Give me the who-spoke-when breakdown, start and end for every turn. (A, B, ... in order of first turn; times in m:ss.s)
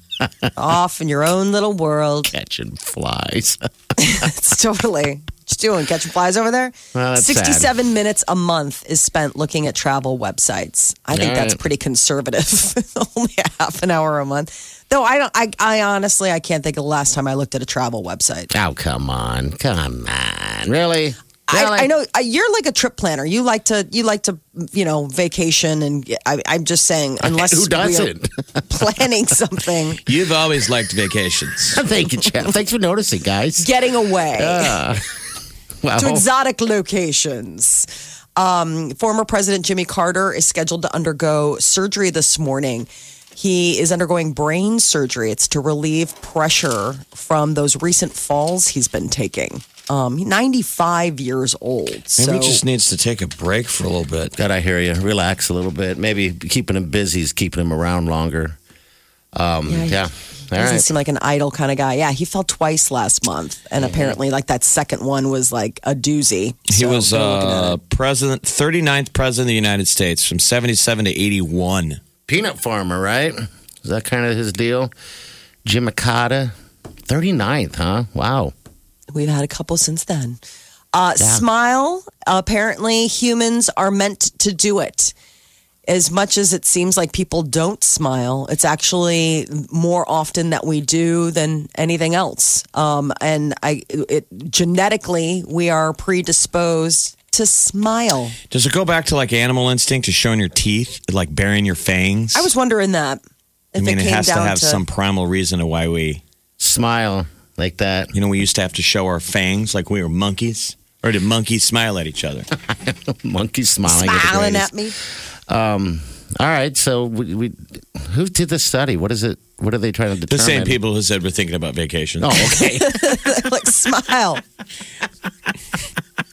0:00.2-0:00.5 A
0:00.6-0:02.3 B
0:02.3-0:04.3 A
0:04.0-0:18.5 B
0:06.9-0:07.7 A
0:11.1-0:11.6 A
0:18.5-0:21.9 A
0:21.5-0:28.1 B
0:27.2-0:29.0 A
0:28.8-0:30.0 B
0:30.0-0:31.8 C
0:31.7-0:35.0 A
0:33.6-0:34.8 B
0:35.8-0:36.2 A
0:36.0-0:52.6 B
0:52.2-0:54.3 C
0:54.4-0:58.6 A
0:59.3-1:00.9 A
0:59.7-1:07.8 B
1:03.8-1:04.2 A
1:06.7-1:12.0 C
1:12.3-1:14.9 A
1:15.6-1:16.5 A
1:17.1-1:18.5 A
1:19.1-1:20.4 B
1:20.9-1:25.1 B
1:21.2-1:21.4 A
1:25.9-1:38.4 B
1:38.5-1:42.5 C
1:42.3-1:43.2 B
1:43.7-1:44.8 B
1:43.8-1:46.2 C
1:46.6-1:48.1 A
1:48.1-1:52.5 C
1:52.7-1:54.8 A
1:53.9-1:55.0 B
1:55.5-2:00.8 A
2:00.3-2:02.6 C
2:02.2-2:03.1 A
2:02.6-2:04.4 B